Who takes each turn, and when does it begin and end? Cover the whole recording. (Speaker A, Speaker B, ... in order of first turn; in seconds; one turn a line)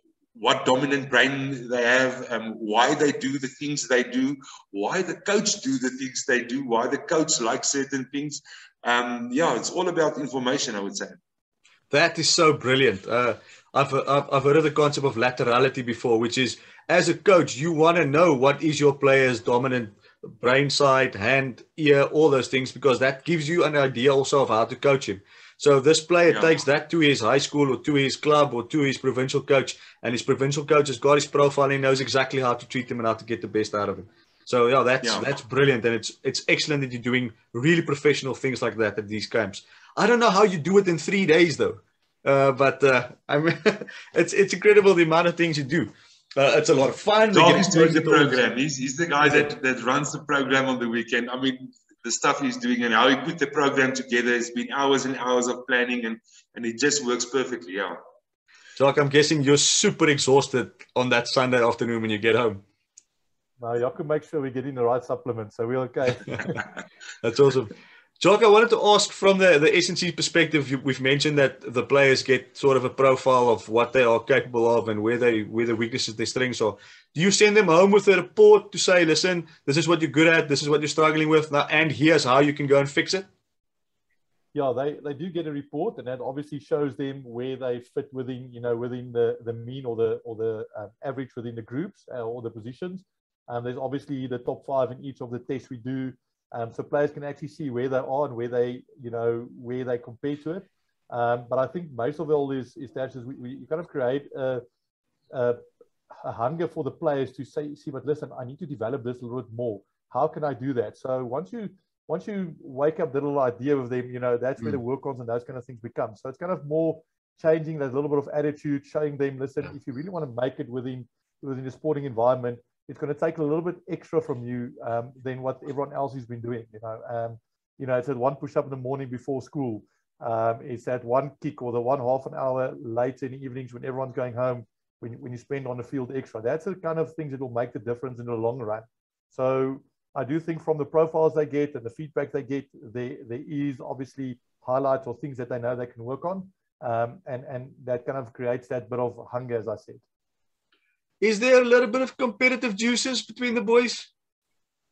Speaker A: 0.4-11.2
Speaker B: 11.9-48.4
Speaker A: 26.3-26.5
Speaker A: 35.0-35.3
Speaker A: 47.3-58.0
Speaker B: 49.2-49.5
Speaker B: 58.8-62.6
Speaker C: 63.6-66.5
Speaker B: 67.2-83.3
Speaker C: 84.5-104.6
Speaker C: 105.3-105.6
Speaker C: 106.2-150.0
Speaker B: 151.2-154.1